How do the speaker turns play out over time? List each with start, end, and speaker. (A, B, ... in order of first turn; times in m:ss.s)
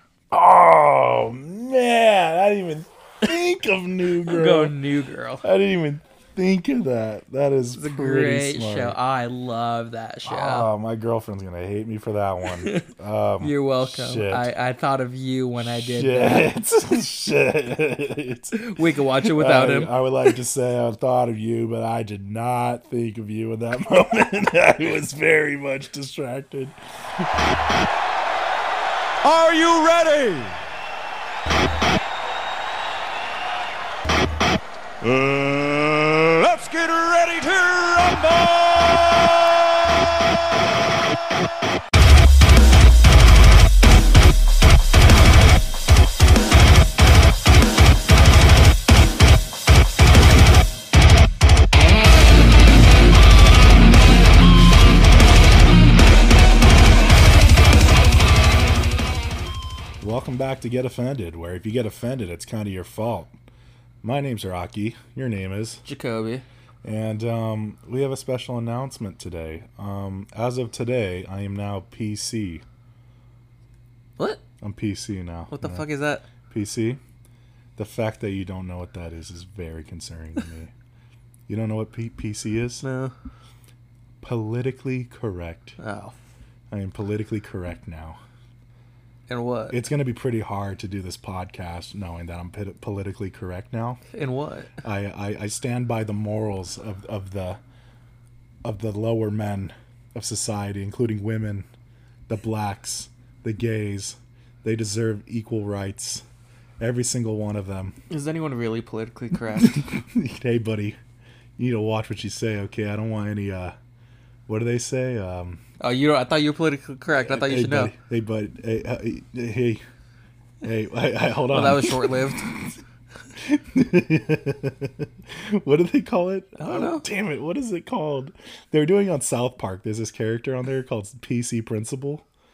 0:00.3-0:04.8 A
0:04.2-0:05.4 B
0:05.4-0:09.0 A
0:07.7-0:10.7 B
0:10.2-0:14.5 A
0:12.5-0:16.5 B
0:15.6-0:27.3 A
0:18.5-0:19.9 B
0:29.2-0:30.6 C
0:35.0-0:40.2 C
1:00.0-1:03.3 A
1:04.0-1:05.8 A
1:05.8-1:06.4 B
1:06.8-1:12.6 A
1:14.6-1:15.8 A
1:15.5-1:16.2 B
1:16.5-1:17.0 A
1:17.8-1:20.7 A
1:21.5-1:22.8 A
1:22.8-1:23.1 B
1:24.2-1:25.8 A
1:25.8-1:26.1 B
1:26.7-1:28.2 A
1:29.3-1:29.8 B
1:29.7-1:34.0 A
1:34.1-1:34.8 B
1:34.8-1:37.6 A
1:38.6-1:41.7 A
1:42.3-1:46.2 A
1:46.8-1:48.0 A
1:48.1-1:49.8 B
1:49.6-1:51.0 A
1:51.6-1:53.8 A
1:54.5-1:55.6 A
1:55.8-1:57.9 B
1:57.1-1:59.8 A
2:00.6-2:02.8 A
2:01.5-2:02.5 B
2:03.4-2:12.2 A
2:06.6-2:07.0 B